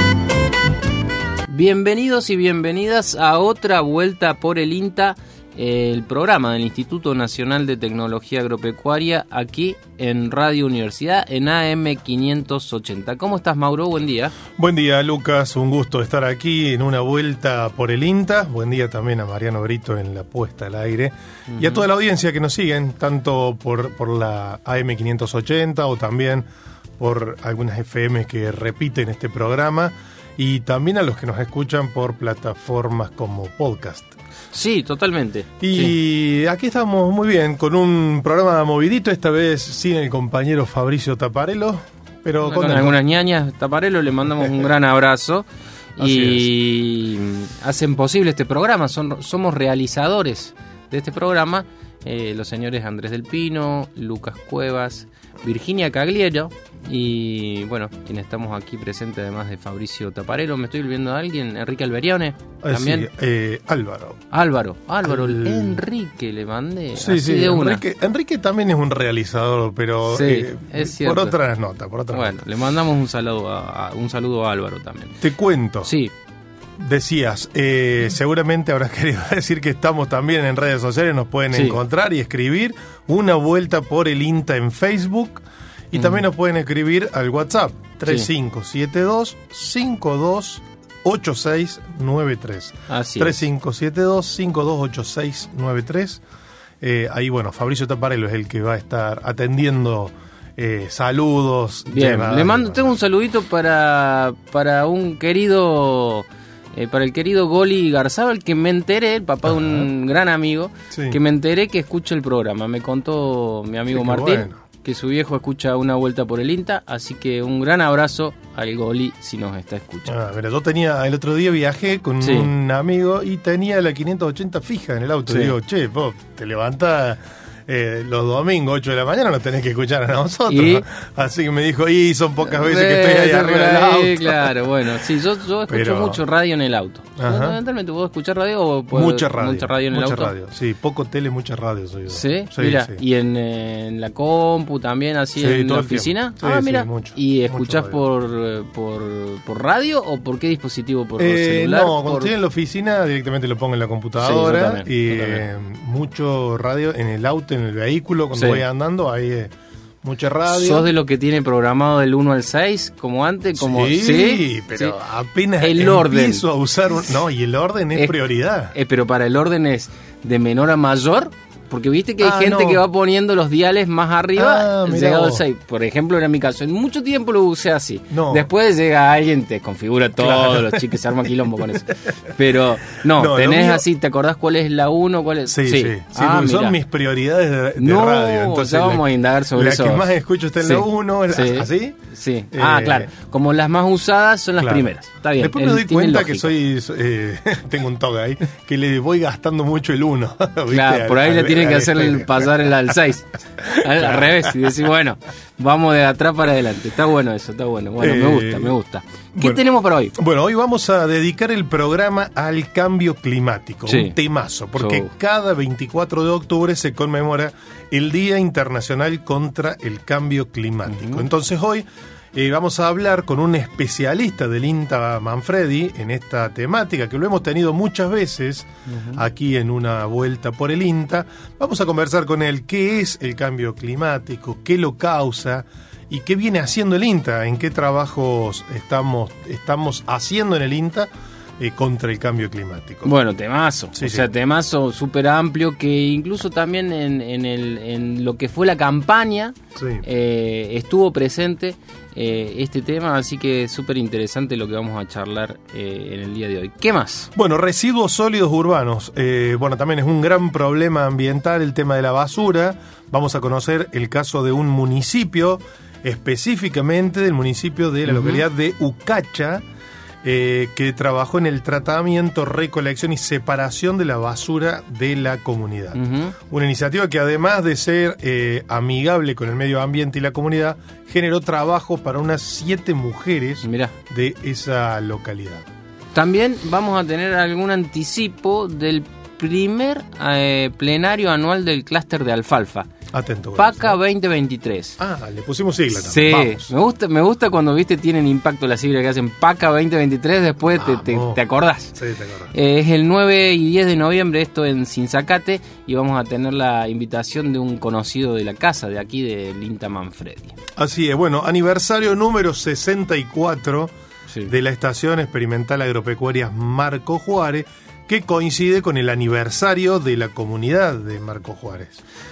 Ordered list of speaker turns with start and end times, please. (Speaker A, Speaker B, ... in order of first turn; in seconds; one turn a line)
Speaker A: 1.5-14.3
Speaker B: 14.6-26.5
Speaker A: 21.5-21.8
Speaker B: 27.0-34.2
Speaker A: 34.5-36.0
Speaker B: 35.6-43.0
Speaker A: 42.4-45.5
Speaker A: 46.0-63.1
Speaker B: 46.0-46.5
Speaker B: 62.6-64.2
Speaker A: 64.3-67.8
Speaker B: 65.1-65.8
Speaker B: 67.0-72.4
Speaker A: 70.1-71.4
Speaker A: 72.1-75.2
Speaker B: 75.2-75.9
Speaker A: 75.8-76.1
Speaker B: 76.8-96.2
Speaker A: 81.5-81.8
Speaker A: 86.0-86.2
Speaker A: 92.9-93.4
Speaker B: 96.8-102.9
Speaker A: 101.9-120.1
Speaker B: 109.5-109.9
Speaker B: 110.9-111.2
Speaker B: 113.9-114.6
Speaker B: 120.1-134.7
Speaker A: 122.2-122.5
Speaker A: 125.3-125.5
Speaker A: 130.5-130.8
Speaker A: 132.4-140.3
Speaker B: 135.7-136.2
Speaker B: 137.2-137.6
Speaker B: 138.9-143.0
Speaker A: 142.1-152.3
Speaker B: 145.4-148.0
Speaker B: 151.2-159.5
Speaker A: 154.2-155.4
Speaker A: 158.3-158.6
Speaker B: 160.0-160.9
Speaker A: 160.5-165.0
Speaker B: 163.6-168.7
Speaker A: 165.6-166.4
Speaker A: 168.7-186.8
Speaker B: 172.2-172.8
Speaker B: 174.4-175.4
Speaker B: 178.1-178.5
Speaker B: 180.2-180.8
Speaker B: 183.1-183.8
Speaker B: 185.5-192.0
Speaker A: 187.8-196.5
Speaker B: 192.5-193.1
Speaker B: 194.6-202.9
Speaker A: 200.7-210.2
Speaker B: 203.6-204.7
Speaker B: 208.0-208.8
Speaker B: 209.3-209.6
Speaker B: 210.2-243.1
Speaker A: 213.9-214.2
Speaker A: 214.8-215.1
Speaker A: 220.9-221.3
Speaker A: 228.9-229.2
Speaker A: 243.0-257.3
Speaker B: 243.9-244.3
Speaker B: 249.8-250.0
Speaker B: 257.3-269.6
Speaker A: 268.1-268.4
Speaker B: 270.2-276.0
Speaker A: 275.9-276.4
Speaker B: 276.5-285.7
Speaker A: 283.6-283.9
Speaker A: 286.1-292.9
Speaker B: 293.1-294.0
Speaker A: 293.6-295.0
Speaker B: 295.0-296.7
Speaker A: 295.9-302.0
Speaker B: 300.7-301.4
Speaker B: 301.9-302.5
Speaker A: 302.5-310.6
Speaker B: 310.8-313.9
Speaker B: 314.5-322.0